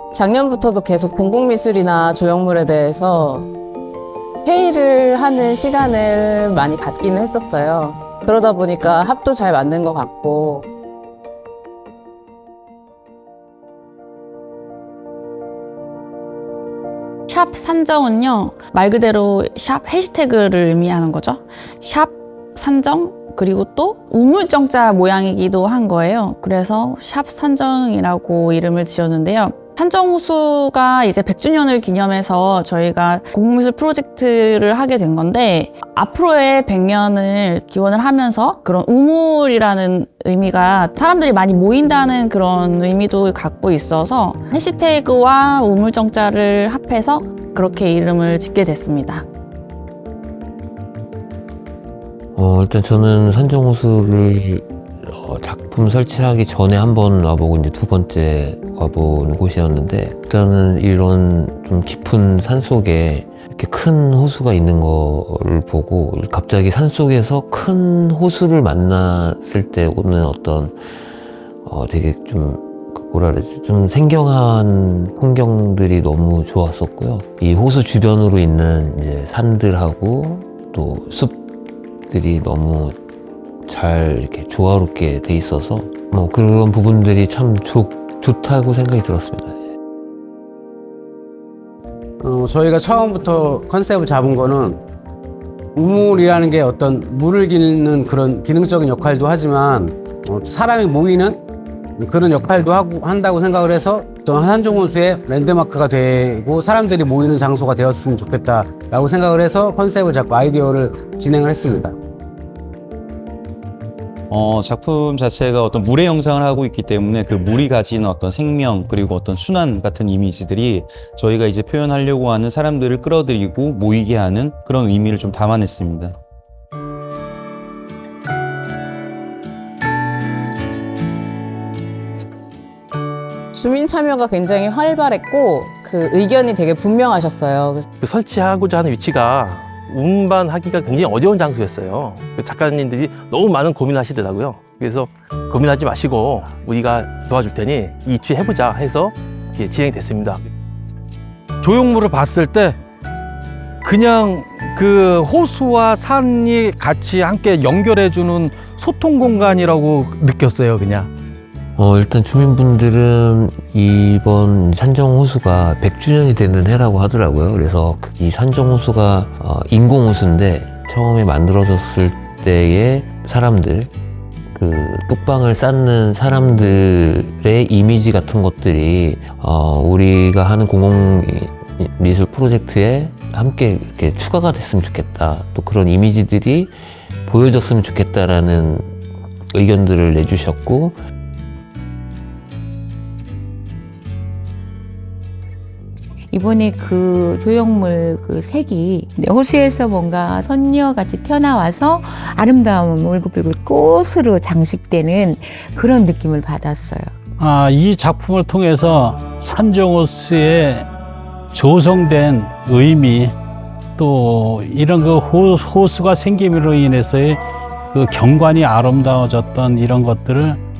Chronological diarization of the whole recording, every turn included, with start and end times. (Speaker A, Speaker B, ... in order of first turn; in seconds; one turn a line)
Speaker A: 0.1-3.5
Speaker A: 4.5-10.7
Speaker B: 17.3-49.3
Speaker C: 52.4-70.9
Speaker C: 71.6-81.4
Speaker C: 82.1-83.0
Speaker C: 83.7-89.6
Speaker D: 92.2-94.8
Speaker D: 95.8-101.4
Speaker D: 102.0-112.0
Speaker E: 114.3-126.2
Speaker A: 133.5-137.9
Speaker F: 138.0-150.4
Speaker G: 151.6-152.8
Speaker G: 153.8-161.1
Speaker C: 161.8-173.9
Speaker C: 174.5-188.9
Speaker C: 189.5-191.0
Speaker H: 196.3-207.1
Speaker I: 207.4-210.9
Speaker I: 211.5-213.4
Speaker I: 214.0-217.4
Speaker I: 217.9-220.6